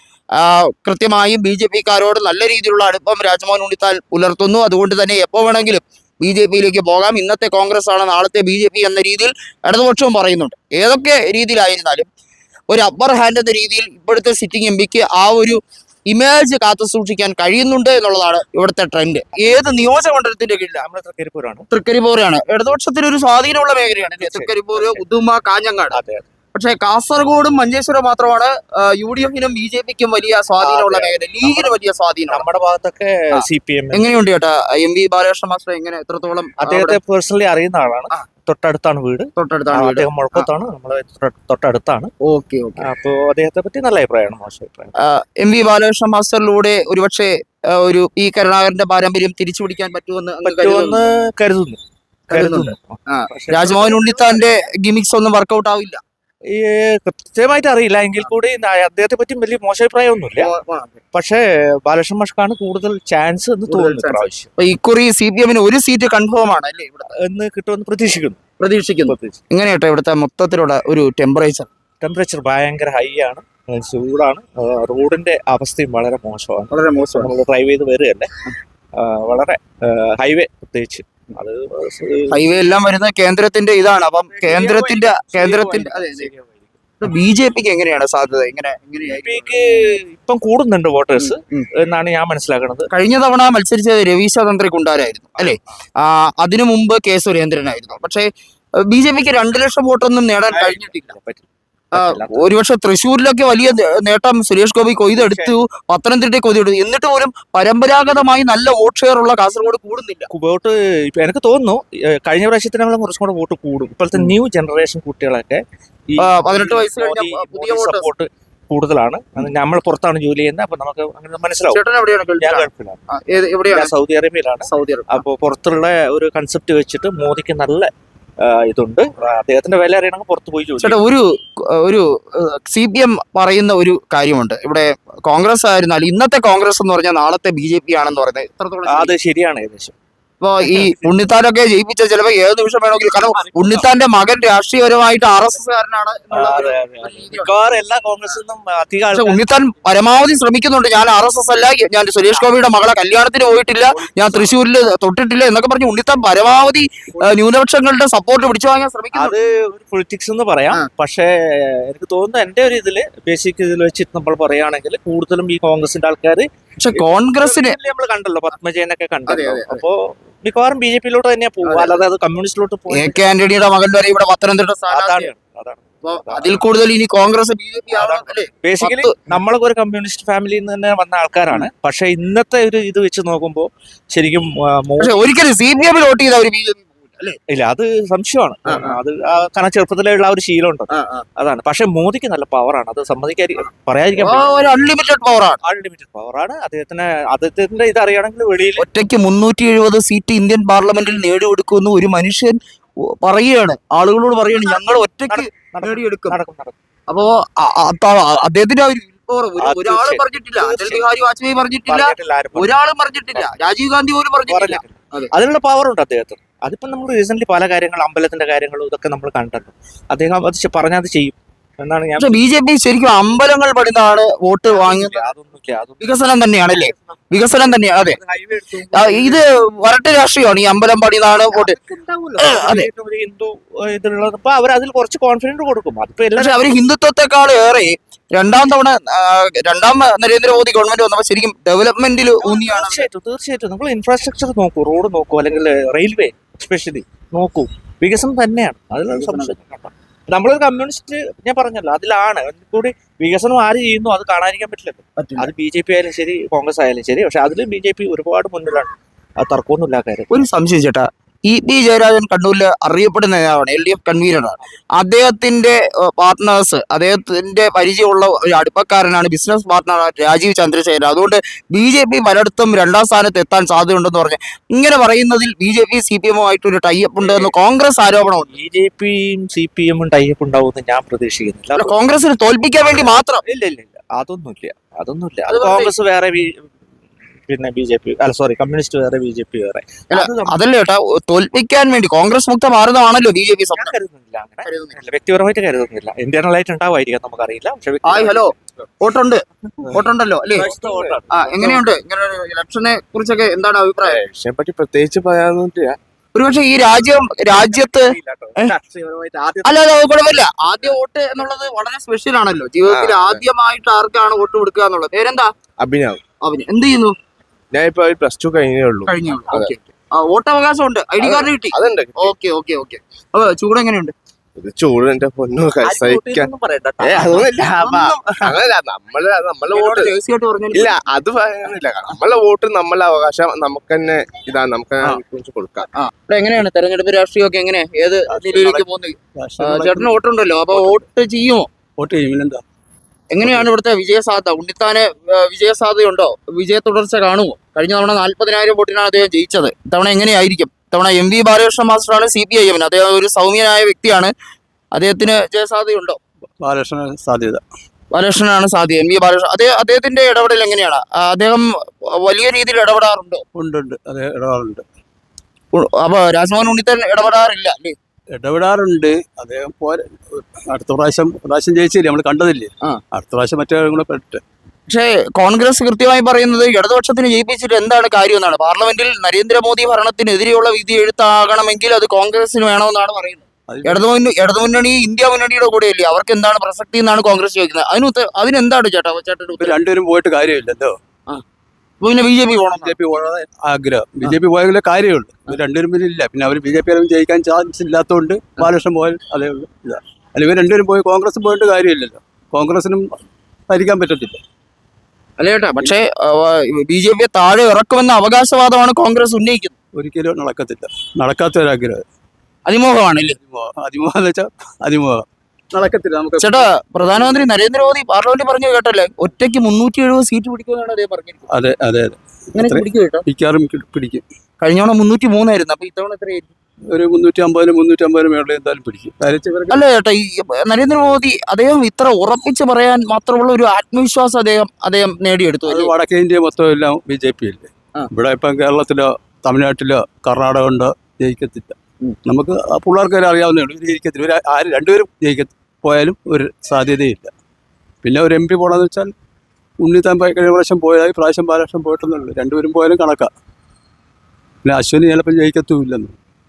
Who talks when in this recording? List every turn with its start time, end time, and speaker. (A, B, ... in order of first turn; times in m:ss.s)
0:00.4-0:12.1 A
0:12.7-0:20.8 A
0:20.8-0:21.6 B
0:21.7-0:26.0 A
0:24.2-0:25.0 B
0:25.9-0:26.2 B
0:26.5-0:32.4 A
0:30.6-0:31.8 B
0:32.3-0:34.1 B
0:33.3-0:37.0 A
0:36.6-0:42.1 B
0:39.4-0:40.5 A
0:42.2-0:42.8 A
0:42.8-0:44.9 B
0:45.0-0:51.1 A
0:50.4-0:54.4 B
0:52.3-0:56.0 A
0:56.4-1:00.5 B
1:00.4-1:01.0 A
1:01.1-1:04.5 B
1:03.7-1:07.1 A
1:07.2-1:08.4 B
1:08.6-1:11.7 A
1:09.0-1:09.4 B
1:12.0-1:18.3 B
1:16.7-1:17.3 A
1:19.0-1:22.4 B
1:22.3-1:26.3 A
1:24.3-1:26.8 B
1:27.0-1:29.8 A
1:29.1-1:32.9 B
1:31.2-1:31.7 A
1:32.9-1:38.3 A
1:38.8-1:41.1 A
1:40.5-1:42.5 B
1:41.9-1:50.3 A
1:45.1-1:45.5 B
1:50.3-2:01.8 B
1:56.2-1:58.1 A
2:01.7-2:03.9 A
2:02.4-2:03.0 B
2:03.7-2:07.9 B
2:04.6-2:05.2 A
2:08.4-2:11.0 B
2:10.8-2:19.1 A
2:18.8-2:20.0 B
2:20.4-2:27.6 A
2:20.6-2:21.1 B
2:23.3-2:23.8 B
2:26.3-2:29.4 B
2:29.1-2:39.4 A
2:39.1-2:53.2 B
2:46.8-2:47.8 A
2:49.3-2:49.8 A
2:51.6-2:52.0 A
2:52.9-2:55.3 A
2:54.9-2:56.6 B
2:56.0-2:59.3 A
2:57.9-3:05.2 B
3:05.0-3:07.4 A
3:07.5-3:14.6 B
3:08.7-3:08.9 A
3:10.9-3:11.2 A
3:14.2-3:15.6 A
3:15.6-3:18.8 B
3:18.8-3:26.4 A
3:24.6-3:26.8 B
3:27.1-3:35.3 A
3:29.6-3:31.1 B
3:31.9-3:32.8 B
3:34.4-3:42.4 B
3:42.2-3:45.3 A
3:44.7-3:46.1 B
3:46.0-3:48.2 A
3:48.0-3:49.4 B
3:48.9-3:51.8 A
3:51.5-3:56.6 B
3:52.4-3:52.9 A
3:56.4-4:03.1 A
4:02.4-4:20.4 B
4:09.1-4:09.5 A
4:15.2-4:15.5 A
4:20.3-4:38.5 A
4:37.2-4:37.5 B
4:38.5-4:41.9 B
4:41.8-4:43.4 A
4:42.9-4:46.7 B
4:45.5-4:45.9 A
4:47.5-4:50.6 B
4:50.1-4:53.9 A
4:53.7-4:58.5 B
4:54.6-4:55.0 A
4:58.0-5:00.7 A
5:00.5-5:01.8 B
5:00.7-5:01.1 C
5:01.3-5:04.2 A
5:04.0-5:06.0 C
5:06.3-5:08.7 A
5:07.8-5:09.9 B
5:09.6-5:15.5 A
5:12.9-5:13.4 C
5:15.8-5:16.2 C
5:16.4-5:17.1 A
5:17.7-5:19.7 C
5:19.1-5:24.1 A
5:21.2-5:22.3 C
5:24.6-5:26.5 C
5:25.8-5:27.5 B
5:27.0-5:30.1 C
5:27.8-5:28.6 A
5:29.7-5:31.0 A
5:30.7-5:35.9 C
5:36.0-5:41.7 A
5:38.3-5:40.2 D
5:40.7-5:41.0 D
5:42.0-5:42.6 D
5:43.3-5:54.3 A
5:43.4-5:43.7 D
5:54.9-5:56.2 A
5:56.6-5:57.6 D
5:58.1-6:01.7 A
6:02.2-6:03.4 A
6:03.5-6:04.8 D
6:05.7-6:07.9 A
6:08.3-6:14.4 D
6:14.9-6:29.8 A
6:23.7-6:24.0 D
6:29.6-6:30.9 D
6:32.0-6:32.9 A
6:32.7-6:43.0 D
6:43.7-6:44.4 D
6:45.4-6:49.7 A
6:49.9-6:52.0 D
6:52.7-6:53.4 A
6:53.4-6:57.5 D
6:56.4-7:01.5 A
7:01.5-7:04.2 D
7:02.6-7:03.2 A
7:04.6-7:06.5 A
7:06.9-7:09.8 D
7:09.7-7:15.9 A
7:15.6-7:27.3 D
7:28.0-7:29.1 D
7:29.8-7:33.3 D
7:34.6-7:36.2 D